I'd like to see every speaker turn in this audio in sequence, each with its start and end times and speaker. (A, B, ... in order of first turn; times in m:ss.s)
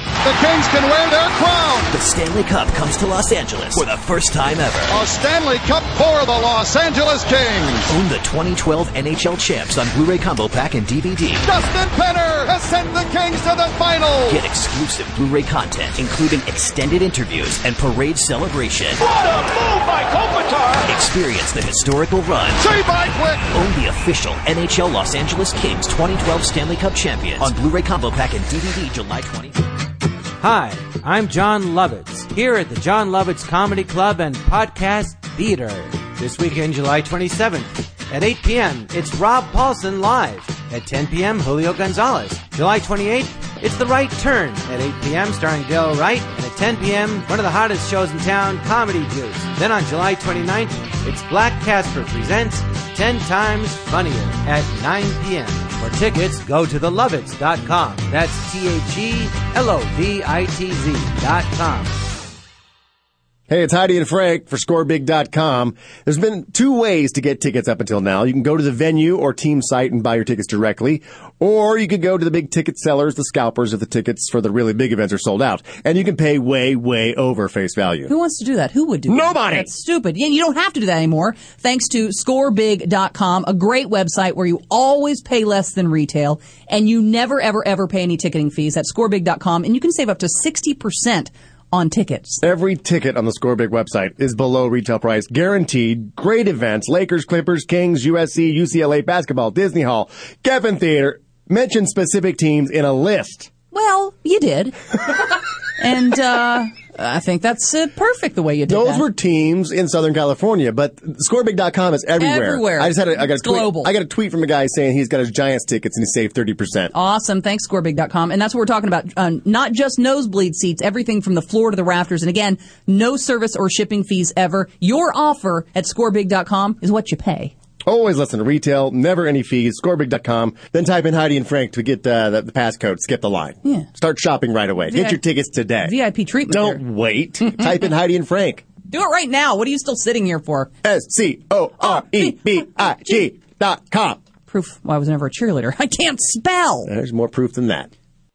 0:00.2-0:01.9 A
0:01.9-0:04.9 B
0:04.9-0:07.9 A
0:07.9-0:11.4 B
0:11.4-0:14.4 A
0:14.3-0:19.0 B
0:19.0-0:20.9 A
0:20.8-0:22.6 B
0:22.6-0:23.5 A
0:23.5-0:29.6 B
0:30.4-1:02.0 C
1:03.5-1:18.1 D
1:18.1-1:32.4 E
1:19.1-1:19.8 D
1:32.4-1:43.5 D
1:43.7-1:44.8 E
1:45.8-1:49.1 E
1:48.7-1:56.9 D
1:52.2-1:53.9 E
1:56.9-2:07.5 E
2:07.9-2:18.7 D
2:14.9-2:15.2 E
2:15.8-2:16.8 E
2:18.9-2:20.7 E
2:20.8-2:24.2 D
2:21.8-2:22.7 E
2:24.5-2:26.9 E
2:26.9-2:27.9 D